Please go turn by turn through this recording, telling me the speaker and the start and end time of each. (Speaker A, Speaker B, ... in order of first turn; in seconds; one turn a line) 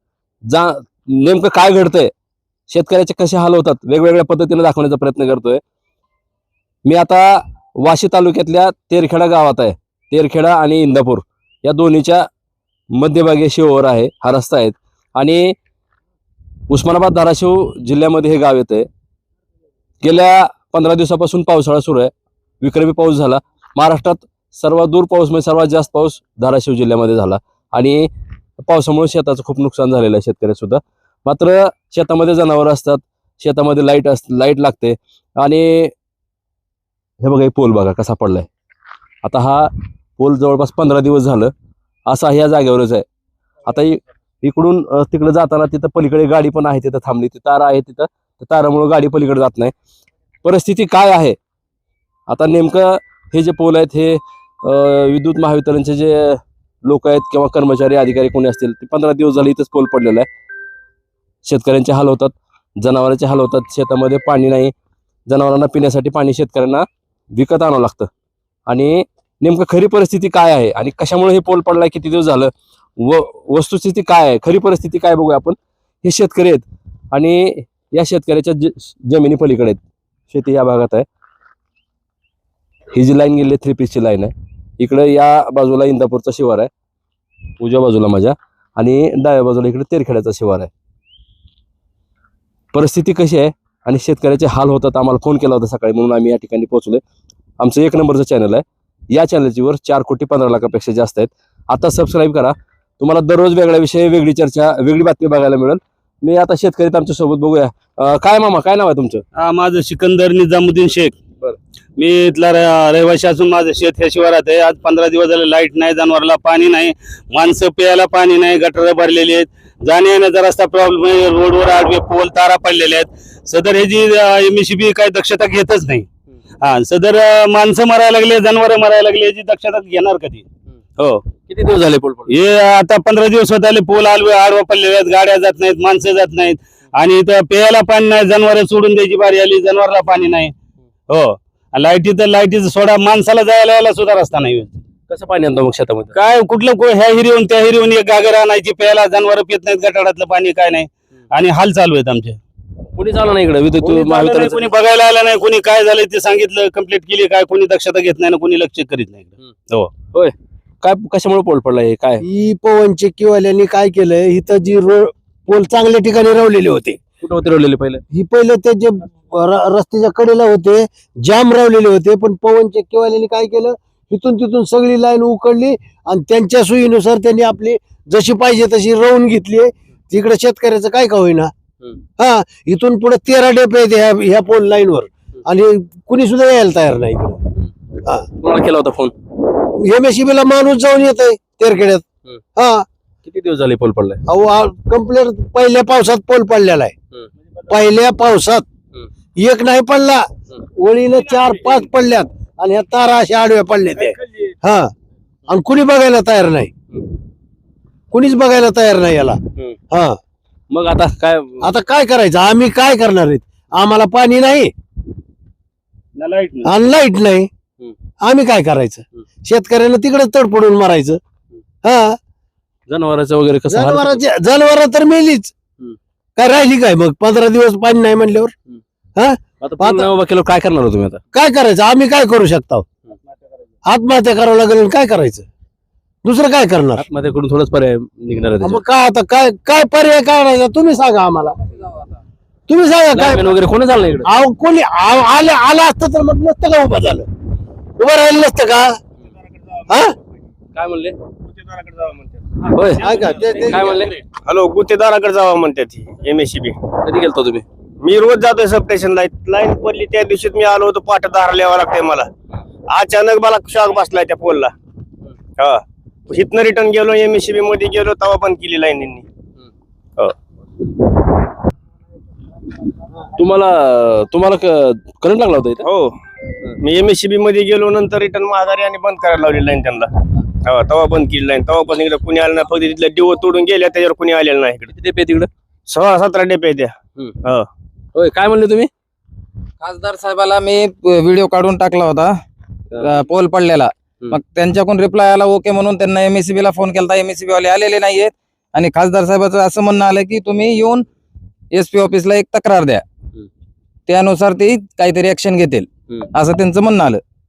Speaker A: 0.5-2.1
Speaker A: 2.7-5.6
Speaker A: 6.8-12.3
Speaker A: 12.9-15.5
Speaker A: 16.7-18.9
Speaker A: 20.0-28.1
Speaker A: 28.6-35.9
Speaker A: 37.2-38.5
Speaker A: 39.2-41.5
Speaker A: 42.1-43.0
Speaker A: 43.6-49.7
Speaker A: 50.4-51.4
Speaker A: 52.3-60.3
Speaker A: 61.4-64.7
Speaker A: 65.3-68.1
Speaker A: 68.7-81.0
Speaker A: 82.9-86.7
Speaker A: 87.6-90.7
Speaker A: 92.7-97.0
Speaker A: 97.6-109.2
Speaker B: 109.3-111.2
Speaker B: 112.0-126.1
Speaker B: 126.6-130.4
Speaker B: 131.0-131.2
Speaker A: 131.5-132.3
Speaker B: 132.3-140.5
Speaker B: 141.1-144.8
Speaker A: 145.1-146.1
Speaker B: 146.1-152.4
Speaker A: 152.9-154.6
Speaker B: 153.8-159.9
Speaker A: 159.4-162.2
Speaker C: 162.2-167.0
Speaker A: 167.2-168.0
Speaker C: 168.1-181.5
Speaker C: 182.2-187.4
Speaker A: 188.4-189.1
Speaker C: 189.8-192.0
Speaker C: 192.5-192.8
Speaker A: 193.2-194.2
Speaker C: 194.3-196.9
Speaker C: 197.7-198.6
Speaker C: 199.4-204.9
Speaker C: 205.5-206.7
Speaker C: 208.1-209.4
Speaker C: 209.9-210.2
Speaker A: 210.7-211.7
Speaker C: 211.6-214.7
Speaker B: 216.2-216.7
Speaker C: 216.6-217.5
Speaker C: 218.2-221.2
Speaker C: 221.8-222.2
Speaker A: 222.9-224.2
Speaker C: 223.7-225.5
Speaker C: 226.3-228.5
Speaker C: 229.2-230.1
Speaker A: 229.6-231.2
Speaker C: 231.3-232.8
Speaker C: 233.8-235.4
Speaker C: 236.2-237.0
Speaker A: 237.0-238.8
Speaker C: 238.6-241.6
Speaker D: 241.7-242.1
Speaker C: 242.7-243.5
Speaker A: 243.1-244.3
Speaker C: 244.2-247.2
Speaker C: 248.0-248.9
Speaker E: 249.5-249.9
Speaker C: 249.9-250.1
Speaker A: 250.7-251.1
Speaker E: 251.4-252.5
Speaker A: 252.7-254.2
Speaker C: 253.0-254.0
Speaker E: 253.0-253.7
Speaker E: 254.4-256.8
Speaker A: 257.0-257.6
Speaker E: 258.0-262.3
Speaker E: 262.9-264.7
Speaker E: 265.6-269.2
Speaker A: 273.4-275.9
Speaker E: 275.8-276.1
Speaker E: 276.8-280.1
Speaker E: 280.6-284.9
Speaker A: 284.8-285.5
Speaker E: 285.9-287.7
Speaker A: 288.1-288.9
Speaker D: 289.8-292.3
Speaker D: 292.9-301.0
Speaker D: 301.7-303.0
Speaker D: 304.1-307.2